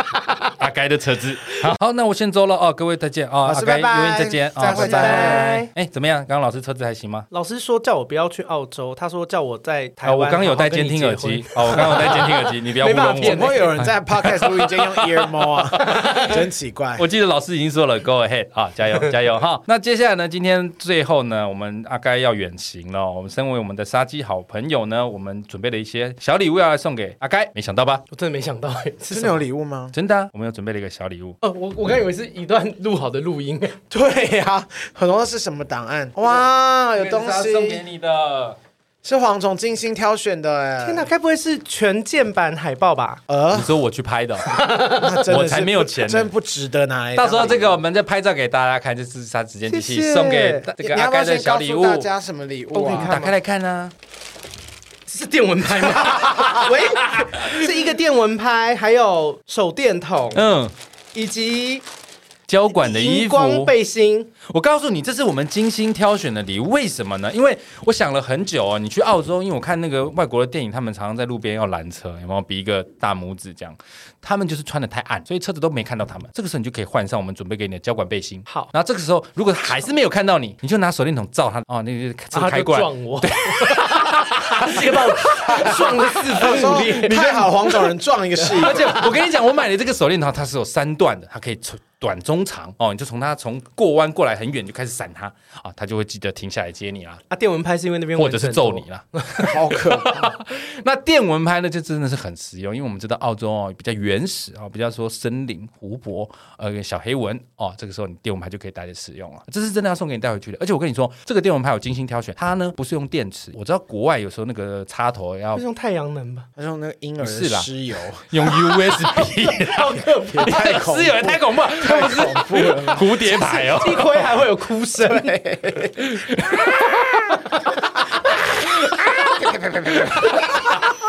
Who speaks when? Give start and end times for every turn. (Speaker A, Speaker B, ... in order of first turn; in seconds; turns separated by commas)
Speaker A: 0.1-0.5, Speaker B: 0.4-7.3, Speaker C: 3.4-5.6, Speaker A: 4.6-5.7, Speaker A: 7.3-13.8, Speaker B: 10.0-16.4, Speaker C: 13.2-17.1, Speaker B: 17.0-28.0, Speaker A: 28.1-29.4, Speaker C: 29.1-29.9, Speaker B: 29.9-31.4, Speaker A: 31.4-33.8, Speaker C: 33.9-37.8, Speaker B: 37.0-38.6, Speaker C: 39.0-41.1, Speaker A: 40.8-43.2, Speaker C: 43.3-43.8, Speaker B: 43.5-46.3, Speaker A: 44.5-45.2, Speaker C: 44.9-47.8, Speaker B: 47.1-52.1, Speaker A: 49.7-50.7, Speaker C: 50.8-53.3, Speaker A: 52.7-53.3, Speaker B: 52.9-53.9, Speaker A: 55.1-60.4, Speaker B: 57.0-57.6, Speaker B: 60.3-60.7, Speaker A: 61.1-61.9, Speaker B: 62.5-63.7, Speaker A: 62.7-64.3, Speaker B: 64.4-86.9, Speaker A: 82.3-89.1, Speaker C: 86.4-89.0, Speaker B: 88.5-97.2, Speaker A: 97.3-99.6, Speaker B: 98.2-115.6, Speaker C: 99.4-100.3, Speaker A: 115.5-116.5, Speaker C: 116.6-118.3, Speaker B: 117.2-117.7, Speaker B: 118.2-119.9, Speaker A: 118.5-120.8, Speaker C: 120.2-123.6, Speaker B: 120.4-124.3, Speaker A: 123.2-125.4, Speaker C: 125.0-126.7, Speaker B: 126.0-126.9, Speaker C: 128.2-130.7